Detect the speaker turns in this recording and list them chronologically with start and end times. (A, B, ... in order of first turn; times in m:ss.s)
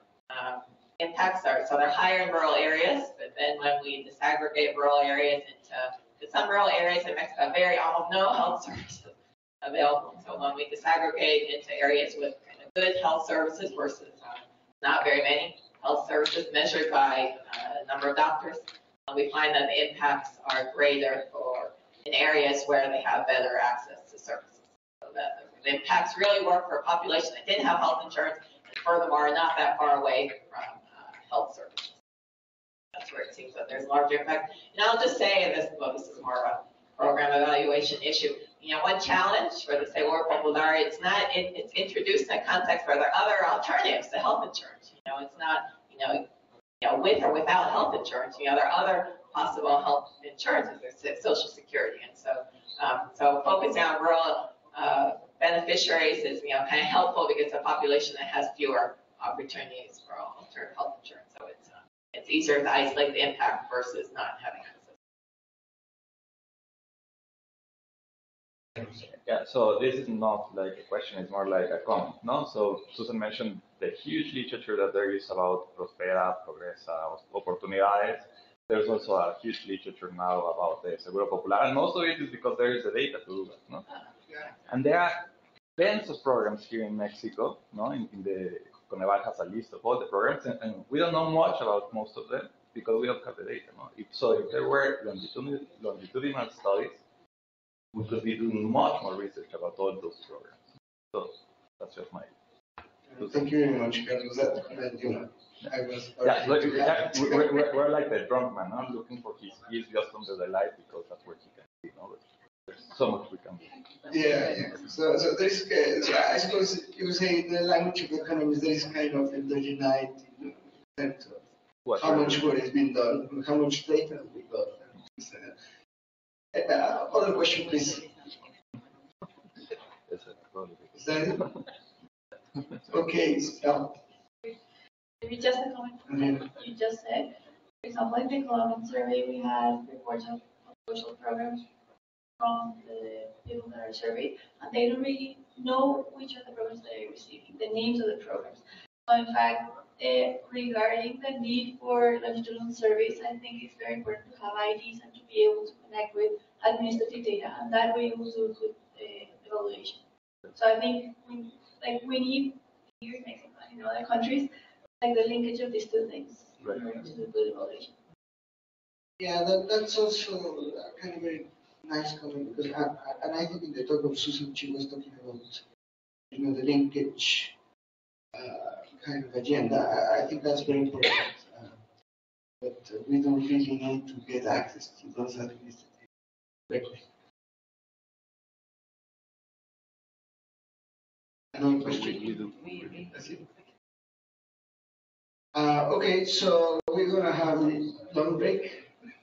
0:00.3-0:31.9 A
0:32.9-0:46.2 A
0:46.8-1:04.9 A
1:09.0-1:23.8 B
1:23.9-1:24.5 A
1:24.7-1:25.2 B
1:25.8-1:37.0 B
1:37.9-1:40.6 B
1:41.1-1:42.3 B
1:43.1-1:47.5 C
1:46.2-1:54.1 B
1:54.1-2:05.6 C
2:01.8-2:02.4 B
2:06.5-2:08.1 C
2:10.1-2:11.6 B
2:10.9-2:11.5 C
2:12.8-2:14.0 C
2:15.2-2:21.6 D
2:16.1-2:16.5 C
2:22.4-2:40.0 D
2:40.5-2:44.5 D
2:45.0-2:47.9 D
2:49.2-2:55.6 C
2:56.3-2:57.5 C
2:58.3-3:01.8 C
3:02.6-3:05.9 C
3:06.7-3:07.0 C
3:11.5-3:13.5 C
3:15.5-3:18.9 C